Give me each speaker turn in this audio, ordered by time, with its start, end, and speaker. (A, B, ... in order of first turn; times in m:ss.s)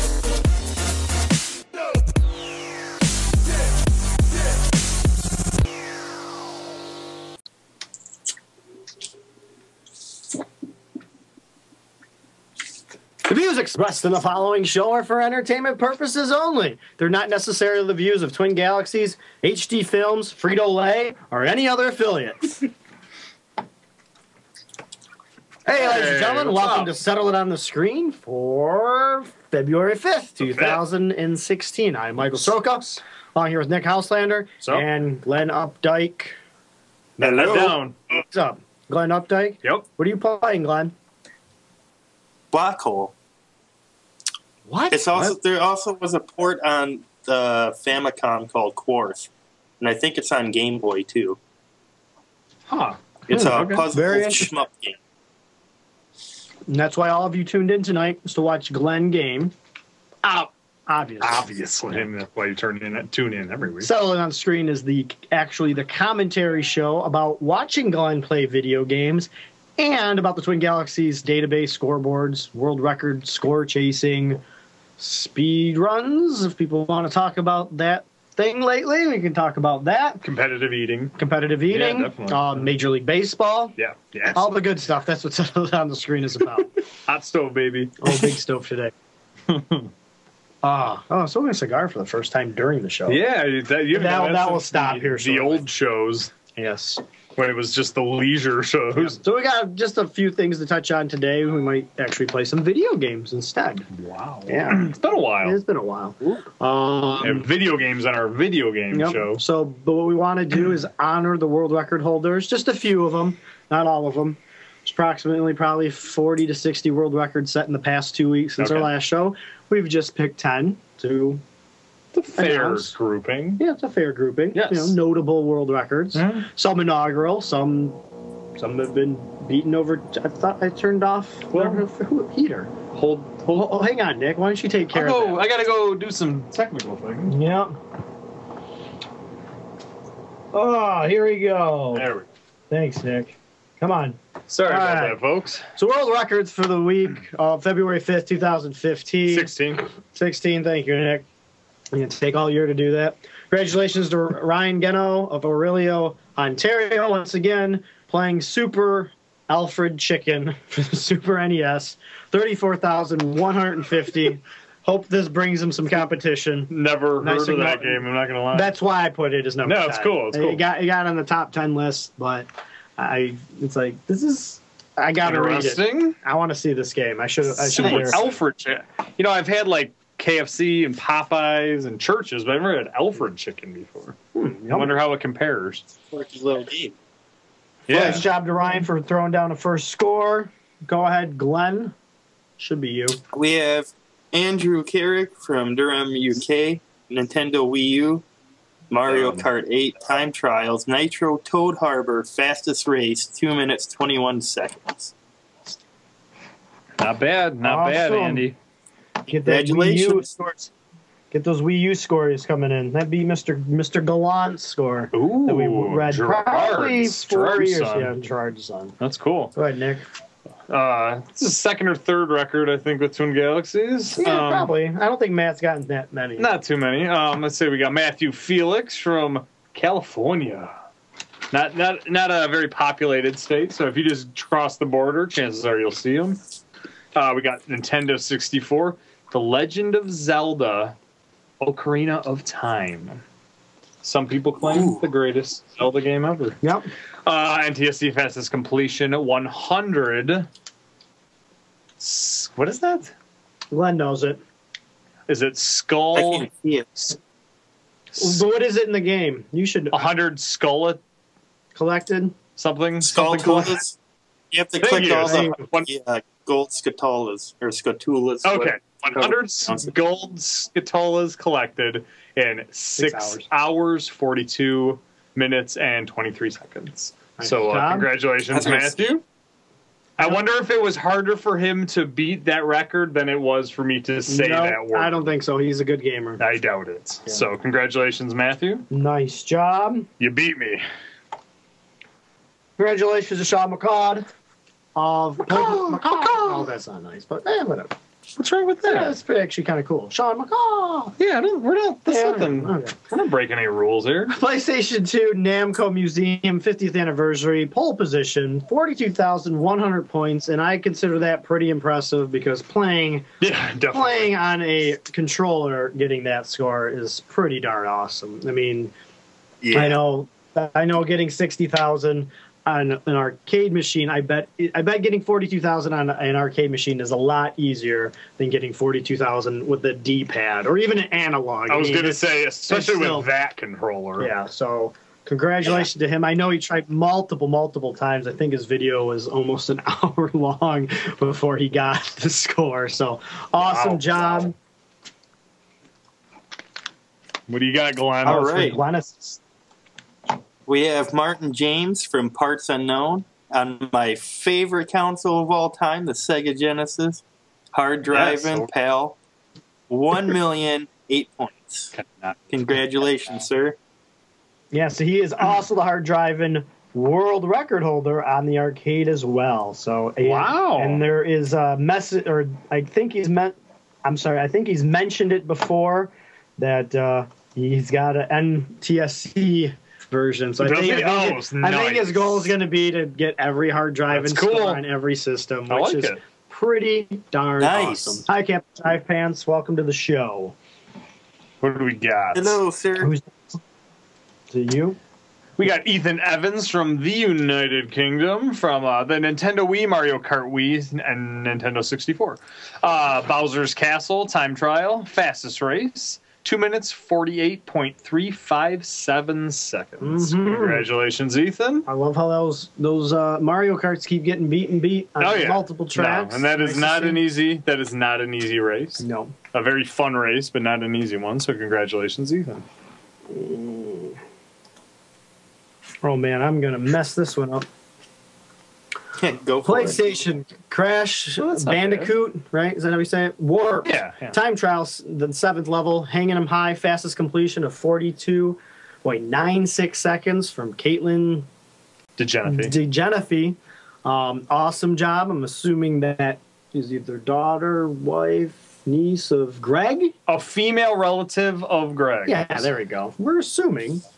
0:13.2-0:22.7 A
0:25.6-0:36.4 A
0:25.8-0:26.9 B
0:30.4-0:30.8 B
0:37.2-0:40.9 A
0:37.2-0:38.0 B
0:37.4-0:37.7 C
0:42.5-0:43.1 C
0:44.7-0:45.4 B
0:44.9-0:49.3 C
0:49.8-0:51.4 C
0:52.7-0:53.9 B
0:53.3-0:55.0 C
0:53.9-0:54.5 A
0:56.7-0:59.5 A
1:00.2-1:02.0 A
1:01.2-1:03.9 B
1:03.8-1:14.4 A
1:15.0-1:20.2 A
1:20.2-1:21.1 B
1:21.2-1:23.8 A
1:21.7-1:22.7 B
1:23.8-1:24.6 B
1:24.3-1:26.7 A
1:27.0-1:28.3 B
1:28.0-1:28.9 A
1:29.5-1:29.9 B
1:30.6-1:33.2 A
1:33.1-1:36.3 B
1:33.9-1:35.7 A
1:36.6-1:37.0 A
1:37.4-1:39.2 B
1:39.0-1:43.9 A
1:43.9-1:45.6 B
1:44.5-1:47.5 A
1:47.2-1:49.4 B
1:48.9-2:01.4 A
1:58.6-1:58.9 B
2:02.1-2:03.6 B
2:02.4-2:02.9 A
2:03.6-2:08.0 A
2:04.5-2:05.0 B
2:06.1-2:06.5 B
2:08.6-2:12.7 A
2:11.5-2:11.8 B
2:12.9-2:13.8 B
2:13.5-2:15.4 A
2:14.9-2:17.3 B
2:17.3-2:17.7 A
2:20.5-2:22.1 A
2:21.9-2:22.3 B
2:22.7-2:25.2 A
2:24.5-2:25.6 B
2:25.8-2:29.5 A
2:29.3-2:29.8 B
2:30.1-2:31.2 A
2:31.9-2:58.4 A
2:46.7-2:48.7 B
2:49.6-2:50.6 B
2:55.2-2:56.2 B
2:57.5-3:04.2 B
3:04.3-3:04.9 A
3:04.7-3:05.8 B
3:06.1-3:06.9 C
3:07.9-3:08.2 B
3:07.9-3:11.9 A
3:12.6-3:13.2 A
3:13.3-3:18.2 C
3:18.9-3:25.1 C
3:19.1-3:19.4 B
3:27.0-3:28.6 B
3:27.6-3:28.5 A
3:29.3-3:30.3 A
3:29.4-3:30.7 C
3:31.3-3:38.9 A
3:35.1-3:38.1 B
3:39.0-3:39.5 B
3:39.5-3:40.0 A
3:40.7-3:44.7 B
3:44.2-3:46.5 A
3:46.4-3:50.7 B
3:51.5-3:56.4 B
3:57.1-4:01.0 B
4:01.6-4:03.2 B
4:04.0-4:06.6 B
4:04.7-4:05.0 C
4:06.6-4:06.9 A
4:07.2-4:10.5 B
4:12.0-4:13.1 B
4:13.7-4:14.4 A
4:15.3-4:17.1 B
4:16.1-4:16.9 C
4:18.1-4:18.4 B
4:18.2-4:20.1 A
4:19.9-4:21.0 B
4:21.7-4:22.3 A
4:22.6-4:23.8 B
4:23.0-4:24.0 C
4:24.5-4:29.9 C
4:24.8-4:25.9 B
4:25.2-4:25.6 A
4:28.4-4:39.2 B
4:33.0-4:33.5 A
4:37.4-4:38.1 A
4:38.5-4:39.0 C
4:40.2-4:45.3 B
4:44.3-4:46.4 A
4:46.4-4:48.9 B
4:48.9-4:50.1 A
4:50.2-4:50.8 B
4:52.8-4:54.3 A
4:54.9-4:57.9 A
4:55.4-4:56.6 B
4:58.4-4:59.1 B
4:58.8-5:01.2 A
5:01.2-5:04.3 B
5:02.1-5:03.0 A
5:04.3-5:13.3 A
5:13.4-5:14.4 B
5:13.9-5:18.9 A
5:19.6-5:20.0 C
5:19.7-5:33.3 A
5:31.7-5:34.3 B
5:34.2-5:44.5 A
5:43.6-5:44.5 B
5:47.5-5:48.8 B
5:48.2-5:49.4 A
5:48.3-5:48.8 C
5:50.6-5:57.2 C
5:57.7-5:59.2 C
5:58.1-5:58.7 B
5:59.9-6:01.9 C
6:01.9-6:02.4 B
6:02.5-6:03.8 C
6:04.7-6:30.6 A
6:10.2-6:11.0 B
6:20.6-6:22.5 B
6:24.1-6:24.8 B
6:25.7-6:26.2 B
6:27.6-6:28.2 C
6:31.6-6:32.6 B
6:32.3-6:33.1 C
6:33.0-6:33.6 A
6:34.5-6:35.0 A
6:35.6-6:51.9 B
6:50.0-6:50.9 A
6:51.8-6:57.2 A
6:55.2-7:02.6 B
6:59.0-6:59.3 A
7:03.3-7:04.2 A
7:06.0-7:07.7 A
7:09.2-7:10.2 C
7:09.6-7:21.5 A
7:11.4-7:12.1 B
7:13.8-7:14.4 B
7:22.2-7:22.8 B
7:22.4-7:30.1 A
7:30.3-7:32.7 B
7:32.2-7:34.0 A